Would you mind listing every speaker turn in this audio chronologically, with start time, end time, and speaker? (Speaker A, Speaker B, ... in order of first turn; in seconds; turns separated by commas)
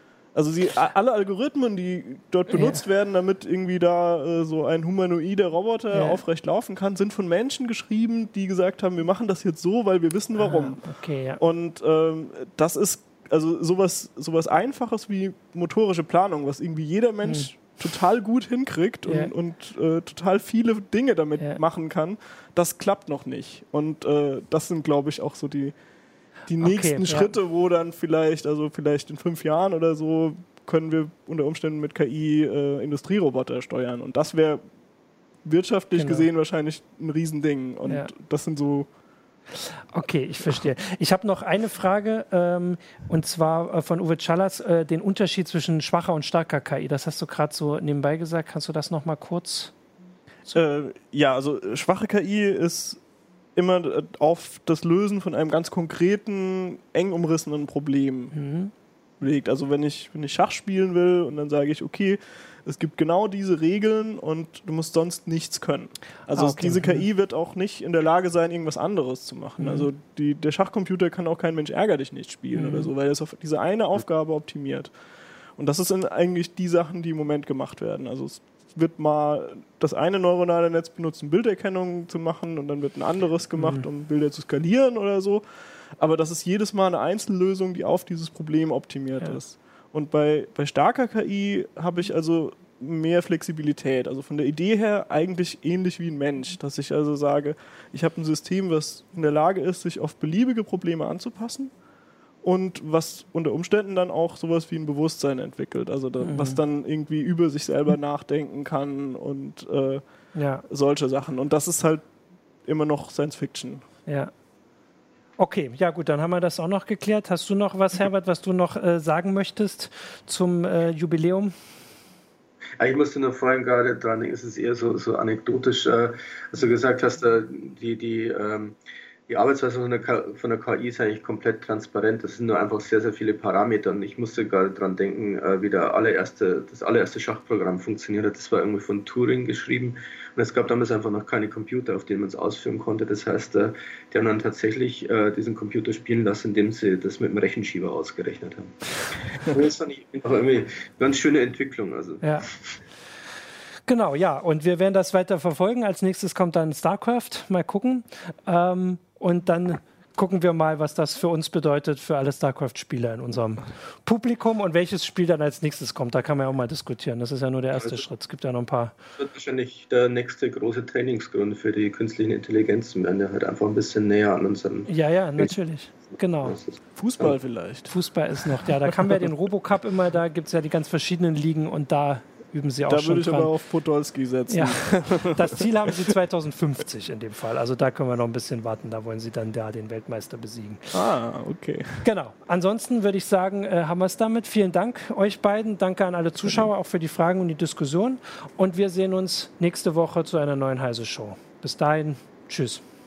Speaker A: 0.3-10.8, Speaker B: 2.5-2.8, Speaker B: 5.9-6.2, Speaker B: 10.4-11.4, Speaker A: 11.4-25.7, Speaker B: 17.2-17.5, Speaker B: 19.0-19.3, Speaker A: 26.5-34.6, Speaker B: 26.6-27.3, Speaker A: 35.4-38.9, Speaker B: 35.9-36.3, Speaker B: 37.8-38.1, Speaker B: 39.6-49.7, Speaker A: 50.5-53.0, Speaker A: 53.5-58.3, Speaker B: 58.3-58.7, Speaker A: 59.2-74.9, Speaker B: 66.3-67.0, Speaker B: 69.6-69.9, Speaker B: 72.5-72.9, Speaker A: 75.6-85.4, Speaker B: 83.6-83.8, Speaker A: 86.0-101.7, Speaker A: 102.4-110.0, Speaker B: 106.2-106.6, Speaker B: 110.3-110.6, Speaker A: 110.7-112.0, Speaker A: 112.6-113.8, Speaker B: 115.4-121.5, Speaker C: 122.8-128.8, Speaker C: 129.3-152.2, Speaker B: 152.2-152.5, Speaker B: 153.9-168.9, Speaker C: 169.2-175.5, Speaker B: 174.9-176.6, Speaker C: 176.4-177.3, Speaker A: 176.9-177.9, Speaker B: 177.9-183.5, Speaker A: 178.9-179.2, Speaker A: 182.9-186.1, Speaker B: 184.5-190.9, Speaker A: 190.9-192.1, Speaker B: 192.0-202.8